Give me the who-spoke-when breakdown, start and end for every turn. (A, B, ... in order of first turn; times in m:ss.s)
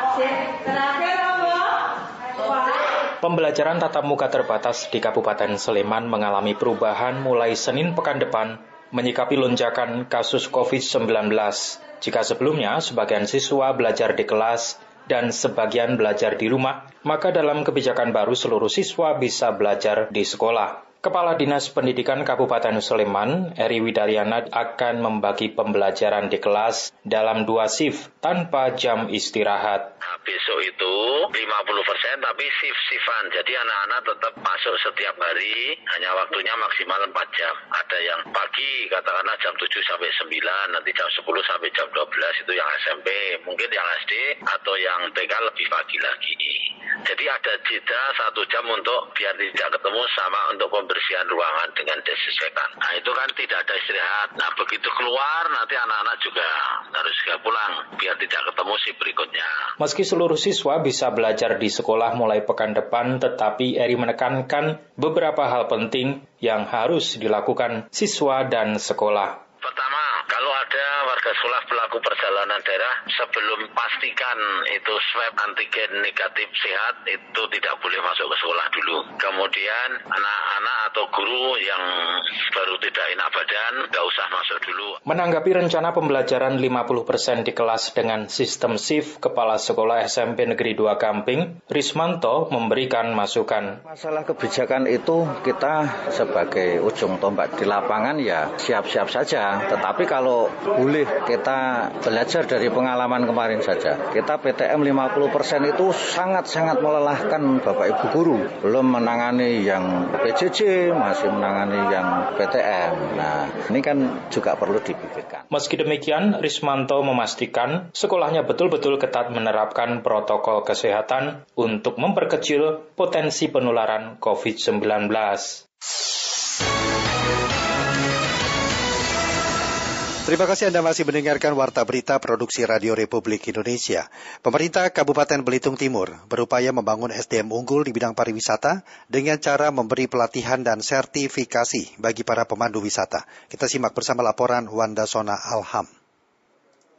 0:03.2-0:29.9 A
0:30.0-0:59.5 B
0:59.8-1:09.4 A
1:09.6-1:25.0 B
1:25.1-1:33.8 A
1:33.9-1:55.4 C
1:55.5-2:05.6 A
2:10.2-2:25.9 D